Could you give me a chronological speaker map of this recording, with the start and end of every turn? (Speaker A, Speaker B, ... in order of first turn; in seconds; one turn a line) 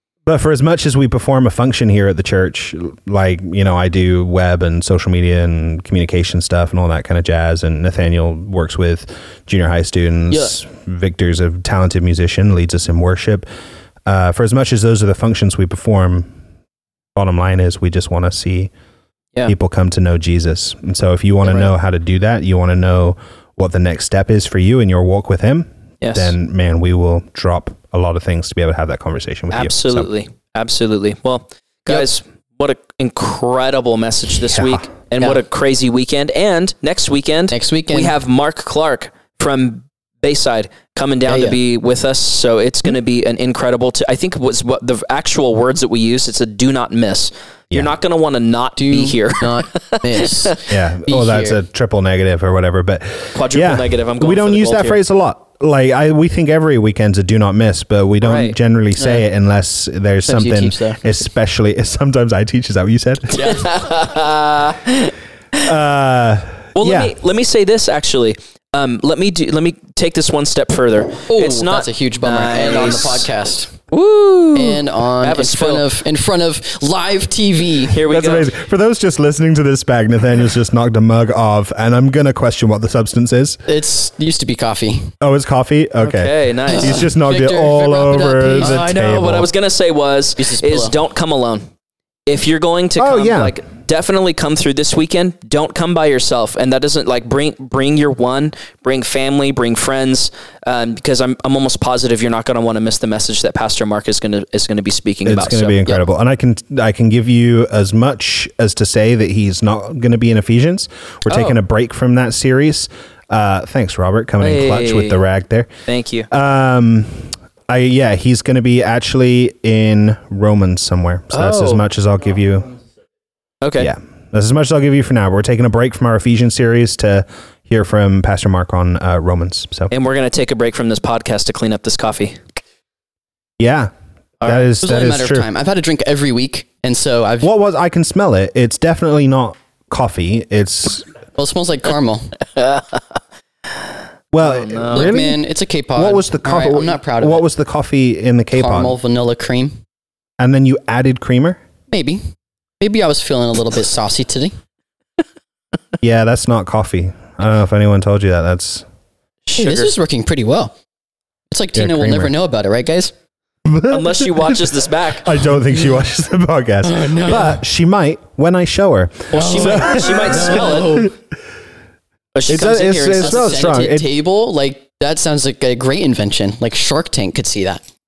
Speaker A: 0.3-13.5
Speaker B: 10.3-10.6
Speaker A: 14.1-16.3
Speaker A: 17.1-18.7
Speaker A: 19.5-30.1
Speaker C: 26.0-26.3
Speaker C: 29.5-50.6
Speaker A: 34.5-34.9
Speaker B: 37.5-38.1
Speaker B: 41.3-41.6
Speaker B: 48.8-51.6
Speaker A: 50.7-63.6
Speaker C: 53.4-55.0
Speaker C: 58.2-58.6
Speaker B: 60.3-61.0
Speaker C: 63.3-65.7
Speaker B: 63.3-63.6
Speaker A: 65.5-67.2
Speaker C: 66.8-73.3
Speaker B: 71.3-73.8
Speaker C: 73.9-75.9
Speaker B: 74.5-78.0
Speaker C: 77.9-78.5
Speaker A: 78.0-83.6
Speaker B: 83.7-85.1
Speaker A: 85.2-89.5
Speaker C: 86.0-87.0
Speaker B: 86.7-88.9
Speaker C: 88.6-91.7
Speaker B: 90.4-91.0
Speaker C: 92.3-105.8
Speaker A: 93.0-93.5
Speaker A: 105.2-115.7
Speaker C: 111.3-111.6
Speaker C: 114.4-115.2
Speaker C: 115.9-116.3
Speaker A: 116.3-122.7
Speaker C: 121.3-121.8
Speaker C: 123.6-123.9
Speaker A: 123.8-129.9
Speaker C: 129.9-132.4
Speaker A: 133.6-135.5
Speaker C: 134.4-134.7
Speaker B: 134.8-137.5
Speaker A: 137.4-141.1
Speaker B: 141.4-142.3
Speaker C: 142.6-143.0
Speaker A: 144.3-145.4
Speaker C: 144.4-145.2
Speaker B: 144.9-147.4
Speaker A: 146.0-149.0
Speaker B: 148.5-149.8
Speaker A: 150.4-151.6
Speaker B: 151.9-152.2
Speaker B: 152.8-154.6
Speaker A: 156.0-158.9
Speaker C: 159.5-159.9
Speaker B: 159.6-160.7
Speaker B: 161.5-163.1
Speaker A: 161.8-162.3
Speaker A: 163.7-171.1
Speaker C: 163.9-165.3
Speaker B: 166.8-167.6
Speaker C: 169.3-171.1
Speaker B: 169.3-171.1
Speaker C: 172.3-173.9
Speaker A: 172.5-174.1
Speaker B: 173.2-177.8